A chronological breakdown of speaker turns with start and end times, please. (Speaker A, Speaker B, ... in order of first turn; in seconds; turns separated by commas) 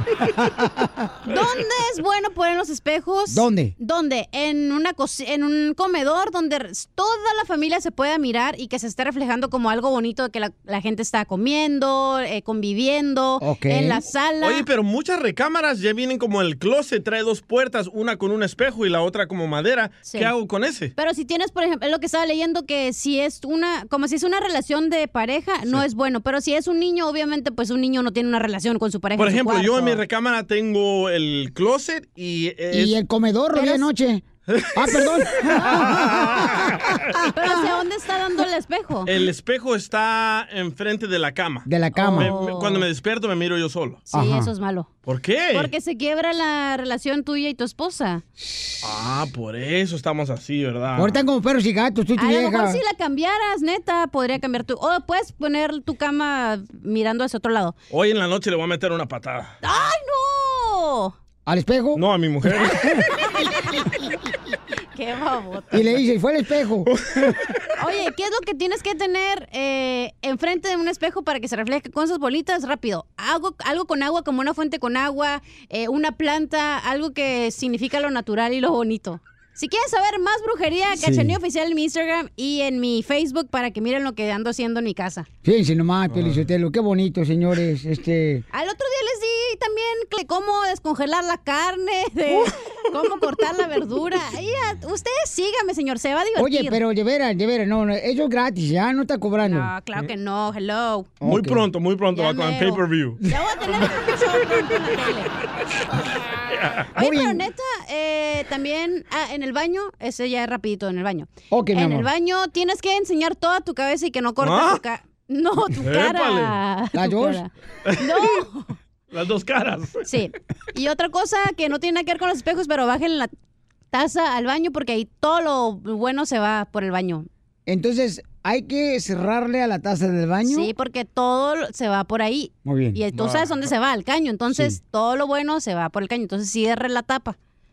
Speaker A: 0.4-1.1, Speaker B: 1.3-14.7, Speaker A: 3.3-3.7, Speaker A: 13.4-14.0, Speaker C: 14.4-20.9, Speaker B: 20.0-20.3, Speaker B: 20.9-30.0, Speaker C: 29.1-33.0, Speaker A: 32.7-34.2, Speaker B: 33.5-33.9, Speaker C: 34.5-37.0, Speaker A: 34.7-37.7, Speaker B: 37.3-39.1, Speaker C: 39.0-44.0, Speaker A: 41.6-42.3, Speaker B: 42.1-42.9, Speaker B: 44.1-44.9, Speaker A: 44.1-44.5, Speaker C: 45.1-45.7, Speaker B: 45.5-48.2, Speaker C: 48.8-51.2, Speaker A: 51.0-52.8, Speaker B: 52.2-57.8, Speaker C: 57.9-59.5, Speaker B: 59.6-61.1, Speaker A: 61.5-63.0, Speaker C: 62.0-62.8, Speaker B: 63.5-63.8, Speaker B: 64.9-65.8, Speaker A: 65.7-67.4, Speaker C: 66.9-67.4, Speaker B: 67.8-85.3, Speaker A: 80.9-81.3, Speaker A: 85.4-88.4, Speaker C: 86.1-86.4, Speaker B: 88.5-96.8, Speaker A: 96.3-99.7, Speaker B: 99.4-101.1, Speaker A: 101.2-101.6, Speaker C: 101.2-103.2, Speaker B: 102.1-105.3, Speaker C: 106.5-106.9, Speaker A: 106.9-107.4, Speaker B: 106.9-118.8, Speaker A: 111.5-112.1, Speaker C: 114.4-114.8, Speaker C: 115.8-116.6, Speaker A: 116.9-117.4, Speaker C: 117.8-118.4, Speaker C: 119.1-120.0, Speaker B: 120.0-123.3, Speaker B: 123.9-127.3, Speaker A: 127.7-130.7, Speaker B: 130.4-137.3, Speaker A: 132.6-133.0, Speaker C: 133.1-133.7, Speaker A: 134.5-134.8